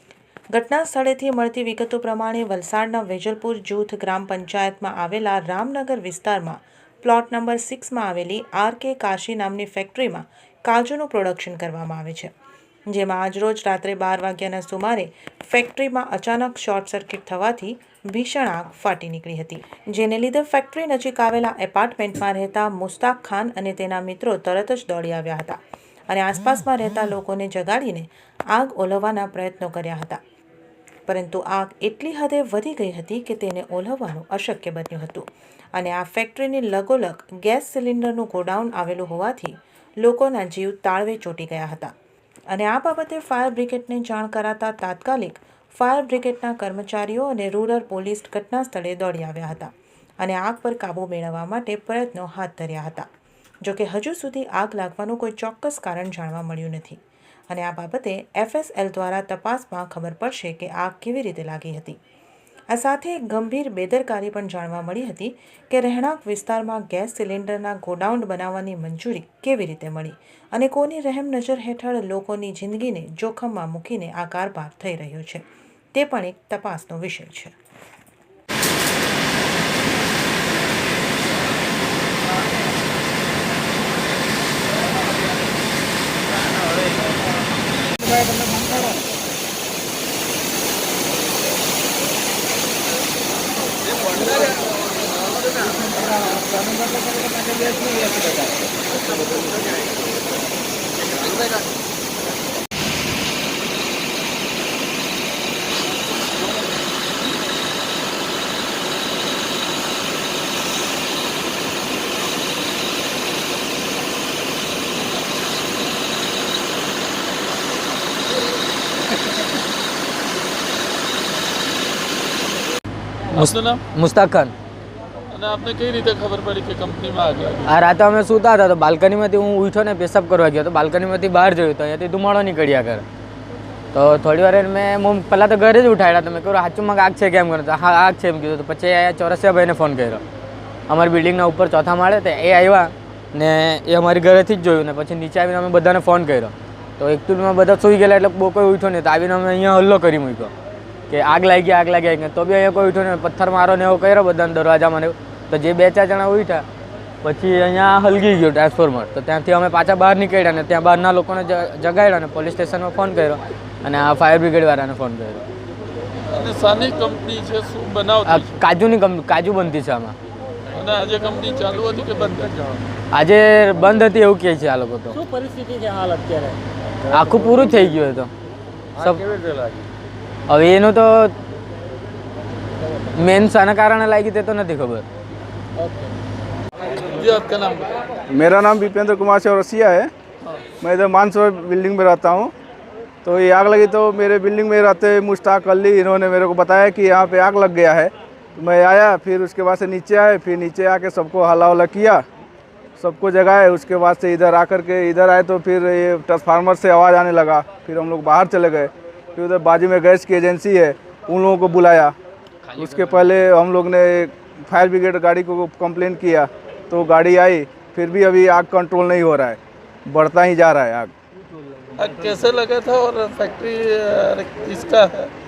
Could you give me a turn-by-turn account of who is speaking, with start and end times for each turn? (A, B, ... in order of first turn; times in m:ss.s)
0:00.5-0:12.3 A
0:12.9-0:30.2 A
0:31.1-0:41.9 A
0:42.5-0:53.1 A
0:53.6-1:02.0 A
1:02.7-1:17.5 A
2:03.3-2:03.8 B
2:03.3-2:04.5 C
2:05.3-2:07.8 B
2:07.6-2:13.0 C
2:13.9-2:20.2 C
2:20.9-2:30.5 C
2:31.1-2:36.6 C
2:37.2-2:45.4 C
2:46.3-2:48.5 B
2:48.2-2:50.1 C
2:50.7-2:52.8 B
2:53.1-2:55.2 C
2:55.2-2:56.6 D
2:57.1-2:58.3 C
2:59.0-2:59.3 C
2:59.3-2:59.8 D
3:00.5-3:01.3 C
3:03.1-3:05.0 C
3:05.8-3:06.1 D
3:07.0-3:08.0 B
3:08.3-3:10.1 E
3:10.8-3:12.5 E
3:13.2-3:22.2 E
3:23.0-3:32.1 E
3:32.7-3:41.1 E
3:42.0-3:45.3 B